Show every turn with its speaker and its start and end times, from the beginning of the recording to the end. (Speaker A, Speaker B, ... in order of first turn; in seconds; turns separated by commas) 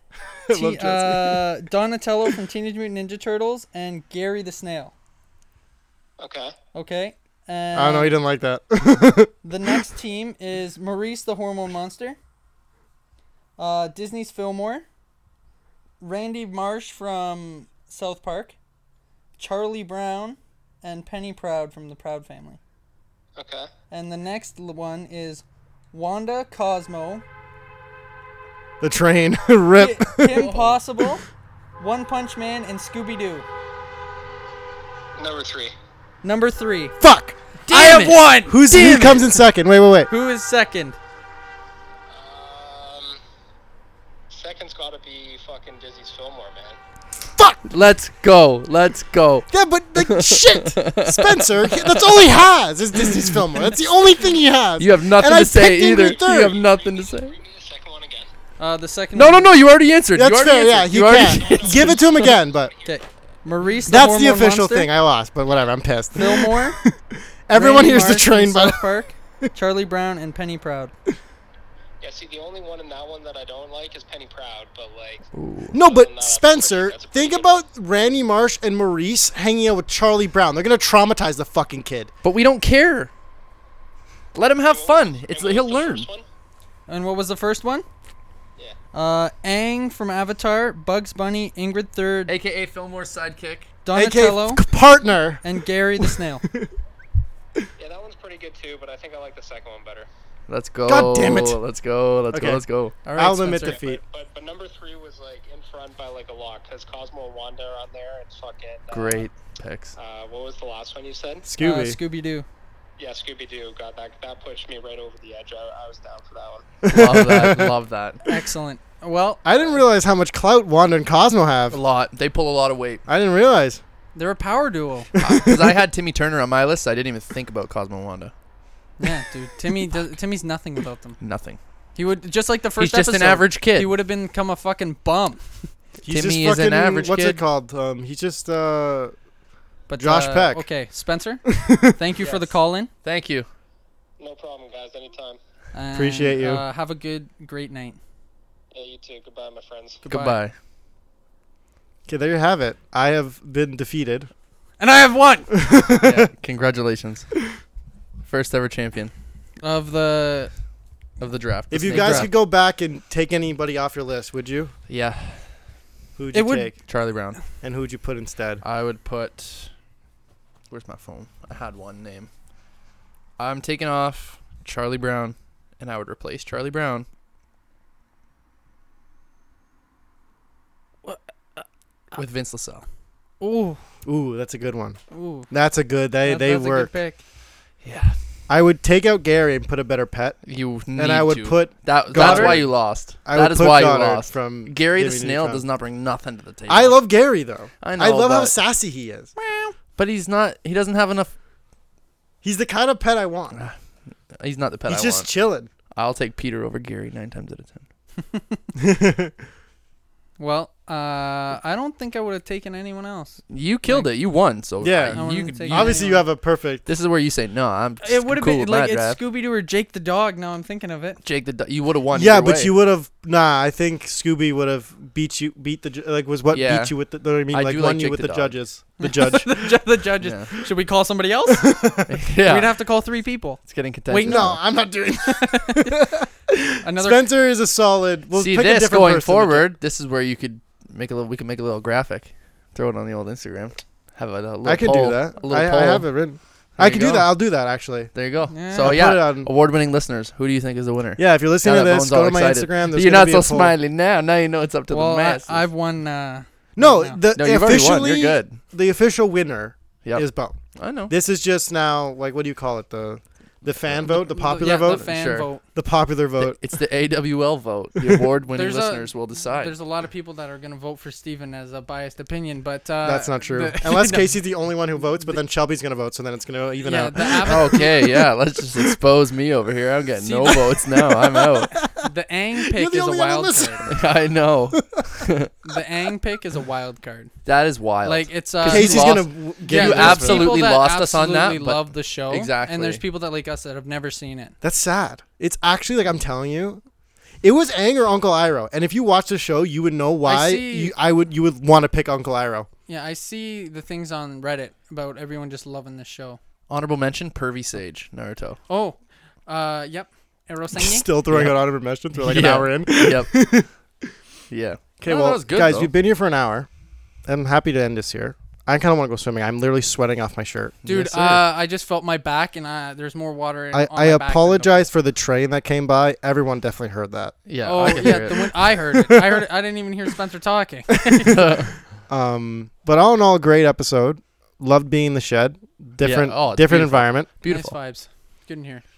Speaker A: 0.3-1.5, Speaker B: 0.5-4.9, Speaker C: 6.2-6.5, Speaker B: 6.7-8.2, Speaker A: 7.7-9.3, Speaker B: 9.4-12.2, Speaker B: 13.6-14.8, Speaker B: 16.0-18.6, Speaker B: 19.4-22.6, Speaker C: 23.4-23.7, Speaker B: 23.9-27.2, Speaker A: 28.8-30.8, Speaker B: 29.8-31.2, Speaker B: 31.8-33.5, Speaker C: 35.2-35.7, Speaker B: 36.2-37.0, Speaker A: 37.0-37.4, Speaker D: 37.7-39.1, Speaker B: 37.7-39.4, Speaker A: 38.5-40.1, Speaker B: 40.1-41.0, Speaker C: 42.1-43.2, Speaker C: 44.3-46.8, Speaker A: 47.4-47.6, Speaker D: 47.7-52.3, Speaker A: 49.5-56.6, Speaker D: 53.0-53.3, Speaker D: 54.8-57.4, Speaker C: 56.4-58.3, Speaker B: 58.6-59.5, Speaker D: 59.1-62.4, Speaker A: 60.1-62.7, Speaker C: 61.2-62.0, Speaker C: 62.5-62.9, Speaker B: 62.8-64.9, Speaker A: 63.9-68.9, Speaker B: 66.2-66.8, Speaker B: 67.5-70.9, Speaker C: 72.0-75.3, Speaker D: 75.3-75.8, Speaker A: 75.7-82.1, Speaker C: 75.8-77.6, Speaker D: 82.2-83.1, Speaker D: 84.3-86.1, Speaker C: 84.7-86.2, Speaker B: 86.9-87.9, Speaker B: 88.9-92.3, Speaker D: 92.3-93.7, Speaker B: 93.8-94.6, Speaker A: 93.9-95.5, Speaker B: 95.4-96.4, Speaker A: 96.0-96.7, Speaker C: 97.8-100.1, Speaker D: 100.5-103.0, Speaker A: 100.9-101.6, Speaker A: 102.3-102.6, Speaker B: 103.0-103.8, Speaker A: 103.2-104.0, Speaker C: 103.6-109.3, Speaker D: 108.9-110.0, Speaker C: 110.0-111.5, Speaker A: 111.4-112.0, Speaker B: 111.6-112.5, Speaker C: 113.0-116.7, Speaker A: 116.8-117.8, Speaker D: 116.9-118.2, Speaker B: 118.2-119.4, Speaker A: 119.5-121.8, Speaker D: 121.7-123.0, Speaker A: 123.1-123.8, Speaker B: 124.2-125.1, Speaker A: 125.2-125.7, Speaker D: 125.2-128.3, Speaker B: 129.0-131.2, Speaker D: 131.2-131.6, Speaker B: 132.0-135.7, Speaker D: 132.8-133.9, Speaker A: 136.0-139.2, Speaker D: 136.1-137.4, Speaker B: 139.9-142.9, Speaker A: 140.0-140.7, Speaker A: 141.6-141.9, Speaker D: 143.0-143.5, Speaker C: 144.2-145.4, Speaker B: 145.7-148.0, Speaker A: 145.9-146.6, Speaker C: 148.7-150.0, Speaker B: 150.0-150.4, Speaker D: 150.1-150.5, Speaker A: 152.1-154.3, Speaker B: 154.8-155.5, Speaker A: 155.5-156.3, Speaker D: 156.0-157.3, Speaker D: 158.3-159.1, Speaker B: 159.6-160.5, Speaker D: 161.2-162.3, Speaker A: 161.7-164.7, Speaker B: 161.9-162.3, Speaker D: 164.9-165.4, Speaker A: 166.2-166.8, Speaker B: 166.3-166.7, Speaker D: 166.9-167.4, Speaker A: 167.6-168.6, Speaker D: 168.6-169.7, Speaker D: 170.7-172.3, Speaker D: 173.4-177.1, Speaker B: 181.0-182.2, Speaker D: 182.2-182.8, Speaker B: 183.4-183.8, Speaker A: 184.1-186.9, Speaker B: 185.1-185.5, Speaker B: 186.2-187.2, Speaker D: 187.8-188.2, Speaker A: 188.5-190.4, Speaker D: 190.4-197.0, Speaker A: 190.9-195.6, Speaker B: 192.1-192.6, Speaker A: 196.7-199.3, Speaker D: 197.8-198.6, Speaker B: 199.4-199.7, Speaker D: 199.8-201.3, Speaker A: 202.4-203.7, Speaker D: 204.3-205.3, Speaker A: 204.9-205.7, Speaker D: 205.9-207.8, Speaker A: 208.8-209.3, Speaker B: 210.4-214.1, Speaker D: 213.5-216.2, Speaker A: 214.8-216.9, Speaker B: 215.1-216.2, Speaker D: 216.9-219.2, Speaker B: 218.0-221.2, Speaker D: 221.2-222.7, Speaker A: 222.1-229.6, Speaker D: 226.5-228.6, Speaker B: 229.0-231.8, Speaker D: 230.2-230.5, Speaker A: 231.6-232.2, Speaker D: 232.1-232.7, Speaker B: 232.5-234.5, Speaker D: 233.7-234.6, Speaker A: 234.2-239.7, Speaker B: 235.2-236.0, Speaker B: 236.8-237.3, Speaker D: 238.3-246.1, Speaker A: 244.6-249.5, Speaker D: 246.8-247.3, Speaker D: 248.1-255.6, Speaker B: 248.5-249.0, Speaker A: 251.2-253.7, Speaker B: 254.9-257.2, Speaker A: 256.8-265.1, Speaker D: 257.4-258.6, Speaker D: 260.1-261.1, Speaker B: 264.1-265.6, Speaker D: 264.9-265.5, Speaker A: 265.8-266.6, Speaker D: 266.4-269.8, Speaker B: 268.6-274.4, Speaker A: 273.0-279.0, Speaker B: 276.8-277.9, Speaker D: 277.2-281.7, Speaker B: 280.2-280.7, Speaker A: 281.1-282.1, Speaker B: 282.0-283.9, Speaker A: 282.6-284.0, Speaker D: 283.9-285.5, Speaker B: 285.6-287.3, Speaker D: 287.4-293.0, Speaker B: 288.1-294.6, Speaker A: 288.7-290.5, Speaker A: 294.6-296.8, Speaker A: 297.4-302.7, Speaker B: 300.2-300.9, Speaker B: 302.9-306.4, Speaker D: 306.7-308.6, Speaker B: 308.7-311.1, Speaker A: 310.7-313.7, Speaker D: 311.3-311.6, Speaker D: 312.2-313.4, Speaker D: 314.5-315.9, Speaker A: 315.0-316.7, Speaker A: 317.3-321.4, Speaker D: 320.9-321.4, Speaker B: 320.9-324.9, Speaker A: 323.7-329.4, Speaker D: 327.5-328.5, Speaker B: 327.6-331.5, Speaker D: 331.3-331.8, Speaker A: 332.1-337.3, Speaker D: 336.0-337.7, Speaker B: 337.5-338.8